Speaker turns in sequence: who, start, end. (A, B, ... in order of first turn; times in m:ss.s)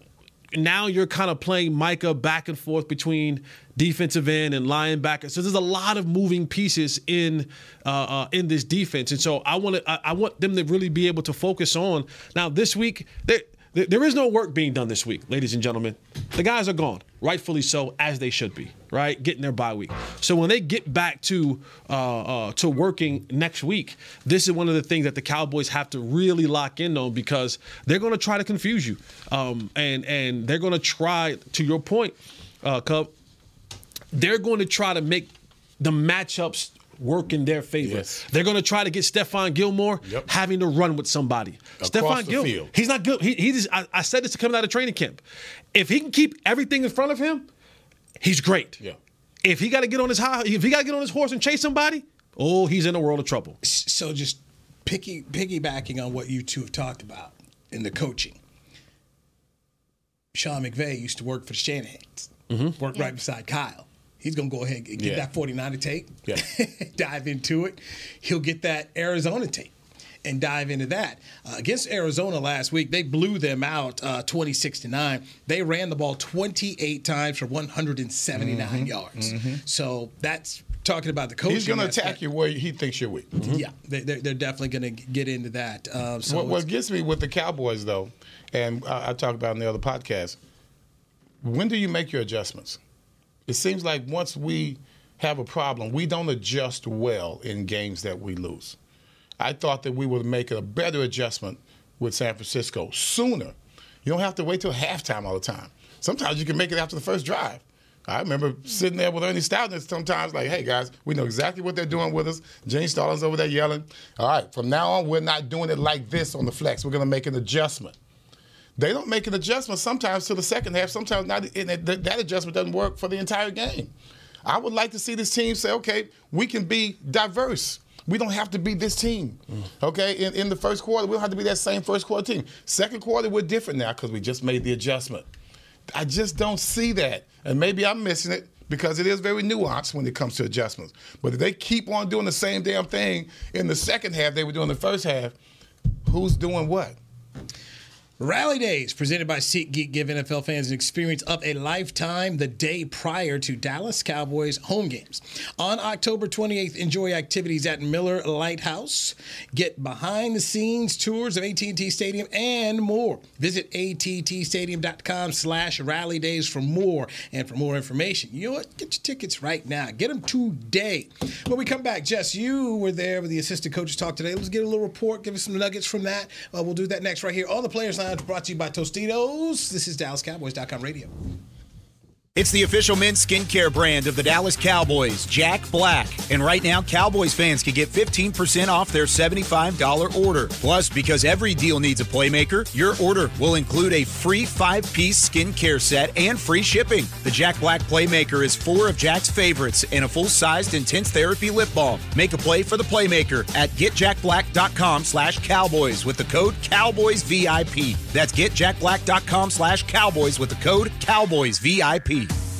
0:00.5-0:33.1 A
0:34.1-0:45.2 A
0:37.8-0:38.2 B
0:41.8-0:42.7 B
0:45.7-0:47.5 A
0:48.2-0:48.8 A
0:49.4-0:53.6 A
0:53.6-0:58.4 C
1:00.3-1:09.7 C
1:02.5-1:02.8 A
1:04.9-1:05.3 B
1:10.2-1:22.2 C
1:18.3-1:19.6 B
1:21.5-1:23.4 B
1:23.4-1:26.6 C
1:26.2-1:30.4 B
1:31.4-1:32.8 B
1:33.5-1:38.8 B
1:39.4-1:58.0 B
1:58.8-2:03.9 B
2:04.4-2:15.3 B
2:15.9-2:25.4 B
2:26.0-2:27.0 B
2:28.2-3:01.1 C
3:02.3-3:32.3 D